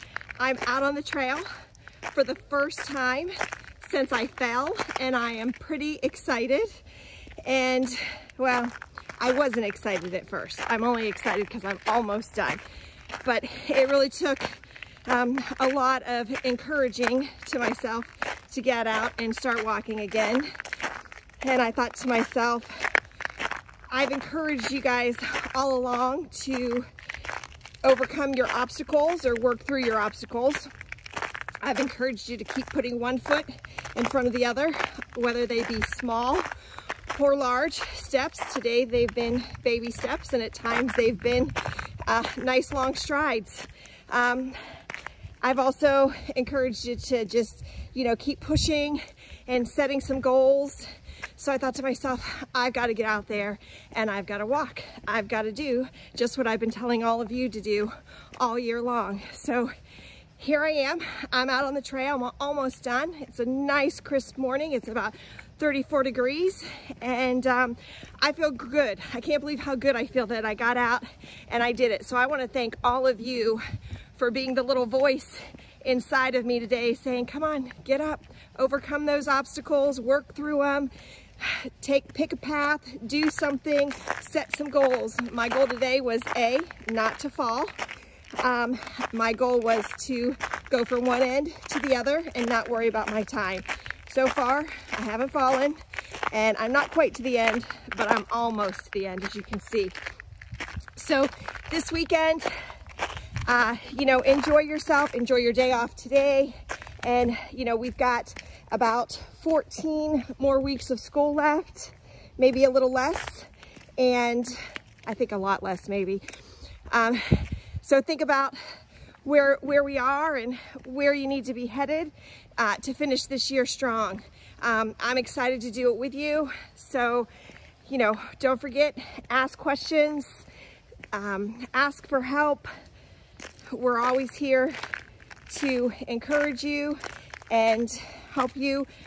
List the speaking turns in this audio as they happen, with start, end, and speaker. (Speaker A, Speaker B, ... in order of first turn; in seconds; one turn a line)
Speaker A: 0.4-1.5
Speaker A: 2.1-6.8
Speaker A: 7.4-12.6
Speaker A: 13.2-20.5
Speaker A: 21.4-22.9
Speaker A: 23.9-26.9
Speaker A: 27.8-30.7
Speaker A: 31.6-36.5
Speaker A: 37.1-44.6
Speaker A: 45.4-50.8
Speaker A: 51.4-59.7
Speaker A: 60.4-73.6
Speaker A: 74.2-87.7
Speaker A: 88.4-95.8
Speaker A: 96.3-100.0
Speaker A: 101.0-102.5
Speaker A: 103.5-114.5
Speaker A: 115.1-116.2
Speaker A: 116.9-118.6
Speaker A: 119.2-127.3
Speaker A: 127.9-130.4
Speaker A: 131.1-132.7
Speaker A: 133.7-134.8
Speaker A: 135.5-138.9